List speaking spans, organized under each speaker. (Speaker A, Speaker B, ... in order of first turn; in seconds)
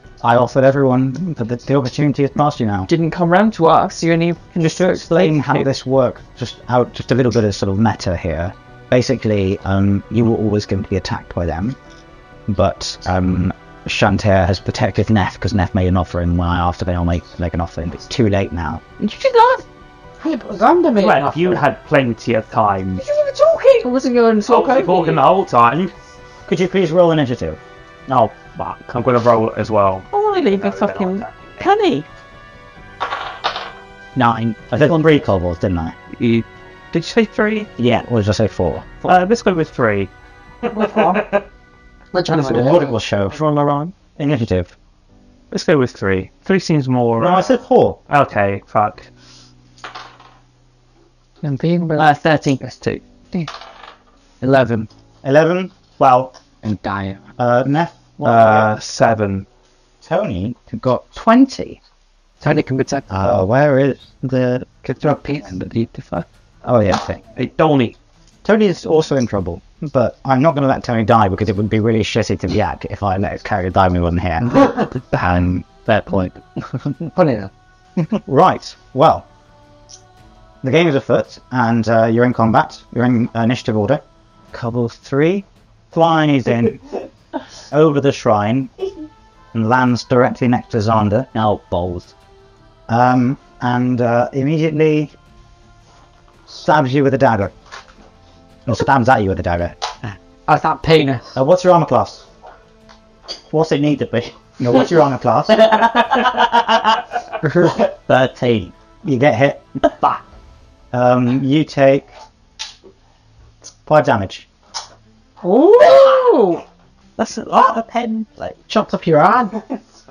Speaker A: 0.2-2.9, 4.7-11.8, 12.5-18.8, 26.5-27.6, 34.1-36.0, 37.8-39.0, 42.3-43.4, 44.2-44.8, 47.2-48.0, 55.2-56.3, 57.4-58.8, 60.0-61.8, 63.1-64.7, 66.6-67.2, 68.5-76.3, 78.1-79.3, 80.6-84.0, 84.5-86.8, 87.7-88.7, 89.5-91.3, 92.9-95.1, 96.6-97.5, 98.7-99.8, 101.3-102.3, 104.6-107.0, 109.0-109.6, 110.9-112.1, 113.8-114.5
Speaker B: 2.9-5.7, 19.0-19.6, 23.1-25.3, 30.1-32.1, 52.0-53.0, 117.2-118.2
Speaker C: 20.2-21.6, 40.7-41.3, 42.1-42.9, 51.4-52.1, 54.4-54.9, 56.6-57.2, 62.4-63.1, 64.9-66.2, 76.8-77.5, 100.5-101.3, 115.4-116.6, 118.7-119.6
Speaker D: 21.0-23.0, 24.5-25.9, 28.5-31.6, 36.1-37.7, 39.0-40.1, 40.7-41.3, 45.5-47.5, 48.1-49.1, 58.2-59.5, 67.4-68.0
Speaker E: 91.3-92.1, 103.5-104.4, 107.8-108.7, 117.5-118.5